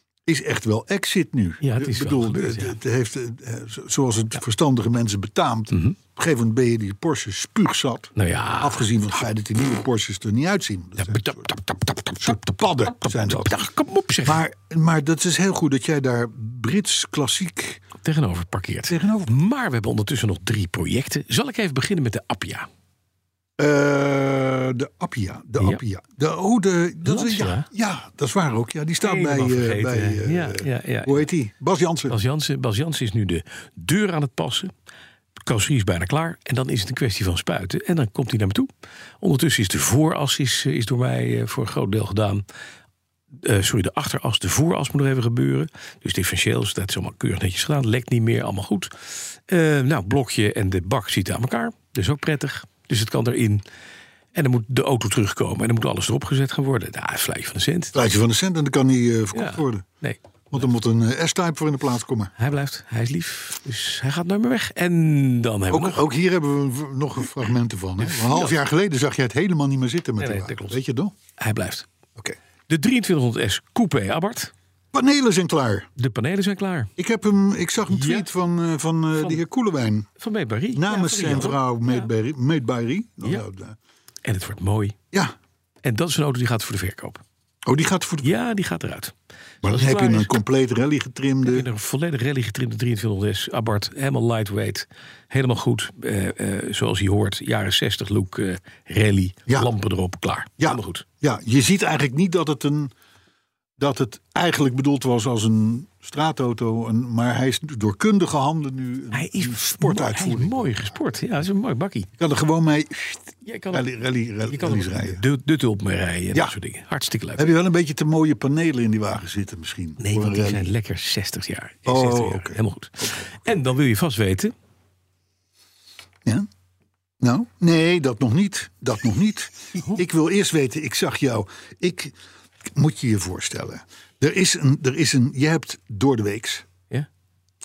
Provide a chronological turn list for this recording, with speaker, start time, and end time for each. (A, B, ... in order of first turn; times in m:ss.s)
0:00.2-0:11.6 A
0:01.6-0:02.8 B
0:05.7-0:06.0 B
0:08.1-0:09.2 B
0:11.0-0:14.4 B
0:12.2-0:13.6 A
0:14.2-0:17.8 A
0:18.0-0:22.7 B
0:18.9-0:19.3 A
0:23.6-0:32.2 A
0:27.0-0:27.7 B
0:29.0-0:31.3 B
0:32.1-0:34.7 B
0:35.4-0:38.7 B
0:39.2-0:42.4 B
0:43.4-0:53.6 B
0:54.3-0:58.0 B
0:57.9-0:59.8 A
0:59.3-1:00.7 B
1:00.5-1:02.3 A
1:02.4-1:06.0 B
1:05.7-1:11.1 A
1:08.0-1:08.6 B
1:10.2-1:10.8 B
1:11.4-1:11.9 B
1:12.7-1:14.5 B
1:14.9-1:15.9 A
1:16.0-1:16.9 B
1:17.0-1:20.1 A
1:17.9-1:18.2 B
1:20.2-1:22.0 B
1:20.7-1:23.8 A
1:24.2-1:25.0 B
1:25.8-1:27.2 B
1:27.6-1:28.3 A
1:28.2-1:30.4 B
1:29.6-1:31.7 A
1:31.4-1:41.0 B
1:40.6-1:42.9 A
1:43.8-1:50.9 A
1:49.1-1:52.1 B
1:52.2-1:55.2 A
1:53.4-1:53.9 B
1:54.4-1:57.5 B
1:57.4-2:00.7 A
2:00.0-2:04.5 B
2:01.8-2:03.4 A
2:07.2-2:12.1 A
2:12.7-2:16.6 A